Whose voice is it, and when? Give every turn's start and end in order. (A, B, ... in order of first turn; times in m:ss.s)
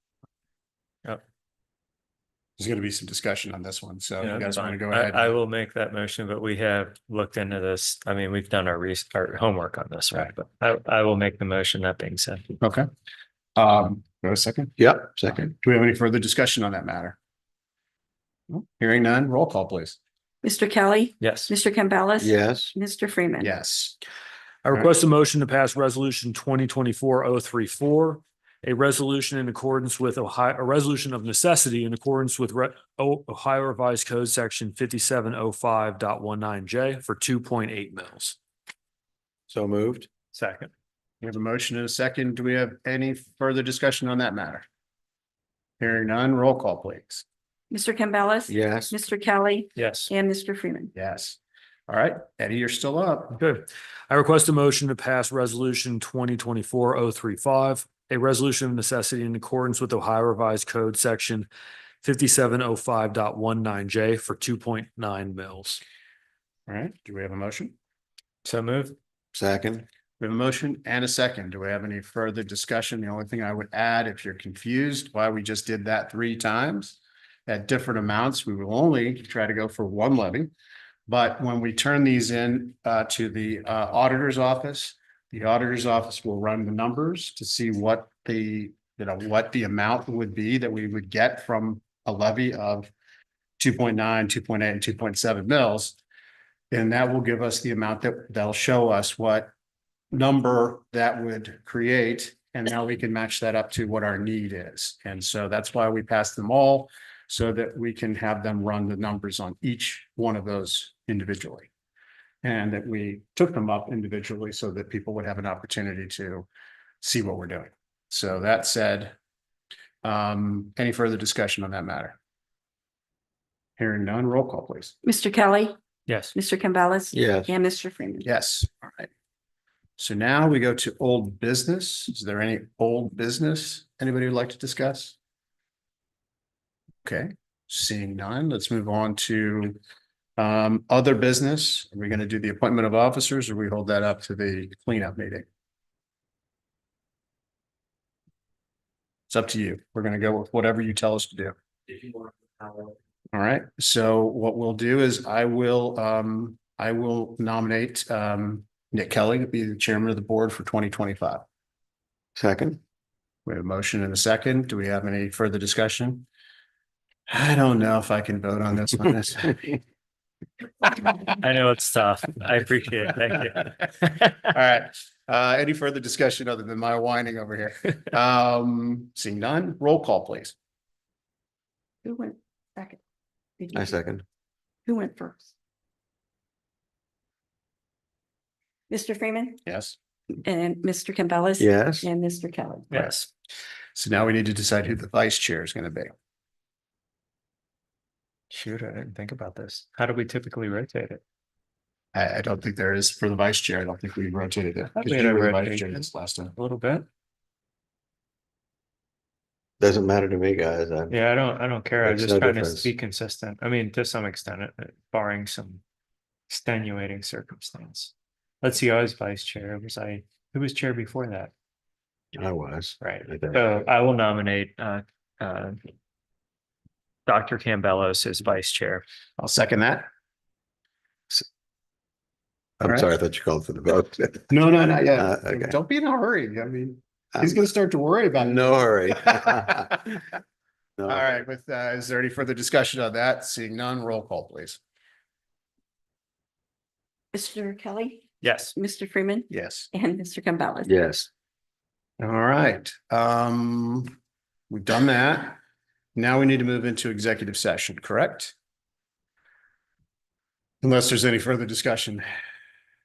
0:02.6-0:05.3 A
0:04.2-0:12.5 B
0:12.6-0:12.9 A
0:13.6-0:17.2 A
0:14.8-0:15.5 C
0:18.5-0:20.0 A
0:20.4-0:23.5 D
0:21.2-0:21.5 B
0:22.2-0:22.7 C
0:23.4-0:24.0 A
0:24.6-0:38.4 E
0:39.5-0:40.1 C
0:40.3-0:40.7 B
0:41.2-0:44.7 A
0:45.8-0:47.2 A
0:47.7-0:50.9 D
0:48.5-0:49.0 C
0:49.8-0:50.1 B
0:51.0-0:53.4 A
0:53.4-1:01.5 E
1:02.0-1:05.8 E
1:06.7-1:07.8 A
1:08.4-1:09.0 B
1:09.3-1:09.9 C
1:10.2-1:20.5 A
1:21.1-1:32.9 A
1:33.6-1:36.0 A
1:36.7-1:39.5 A
1:40.1-1:51.7 A
1:52.4-1:56.5 A
1:57.0-1:59.2 A
2:00.0-2:02.2 A
2:03.8-2:04.9 A
2:05.0-2:05.8 D
2:06.1-2:06.4 B
2:06.3-2:08.3 D
2:07.1-2:07.5 C
2:08.2-2:09.1 A
2:10.0-2:15.2 A
2:17.0-2:19.8 A
2:20.4-2:25.5 A
2:29.3-2:31.6 A
2:33.3-2:41.4 A
2:42.4-2:42.8 C
2:43.5-2:46.3 A
2:47.3-2:49.8 A
2:51.4-2:54.5 B
2:54.5-3:00.5 A
3:02.0-3:03.0 D
3:03.6-3:04.0 D
3:03.7-3:04.2 C
3:04.9-3:05.4 D
3:08.9-3:09.6 D
3:09.6-3:10.0 A
3:10.4-3:12.9 D
3:11.6-3:12.1 C
3:12.9-3:13.3 B
3:14.0-3:16.1 A
3:18.5-3:21.2 B
3:22.1-3:26.5 A
3:25.0-3:27.1 B
3:29.8-3:31.1 C
3:31.1-3:35.8 B
3:32.0-3:32.9 C
3:36.5-3:41.5 B
3:42.3-3:43.6 C
3:43.0-3:45.8 B
3:47.3-3:49.0 B
3:49.4-3:50.1 A
3:52.8-3:54.6 C
3:52.8-3:53.1 A
3:54.5-4:00.2 A
3:55.1-3:55.8 C
3:58.4-4:00.1 C
4:01.1-4:04.8 A
4:07.3-4:08.2 D
4:08.4-4:08.8 B
4:08.8-4:10.9 D
4:09.5-4:09.9 A
4:10.8-4:11.3 C
4:12.2-4:14.1 A
4:14.7-4:15.6 A
4:16.2-4:18.5 A
4:20.8-4:22.3 A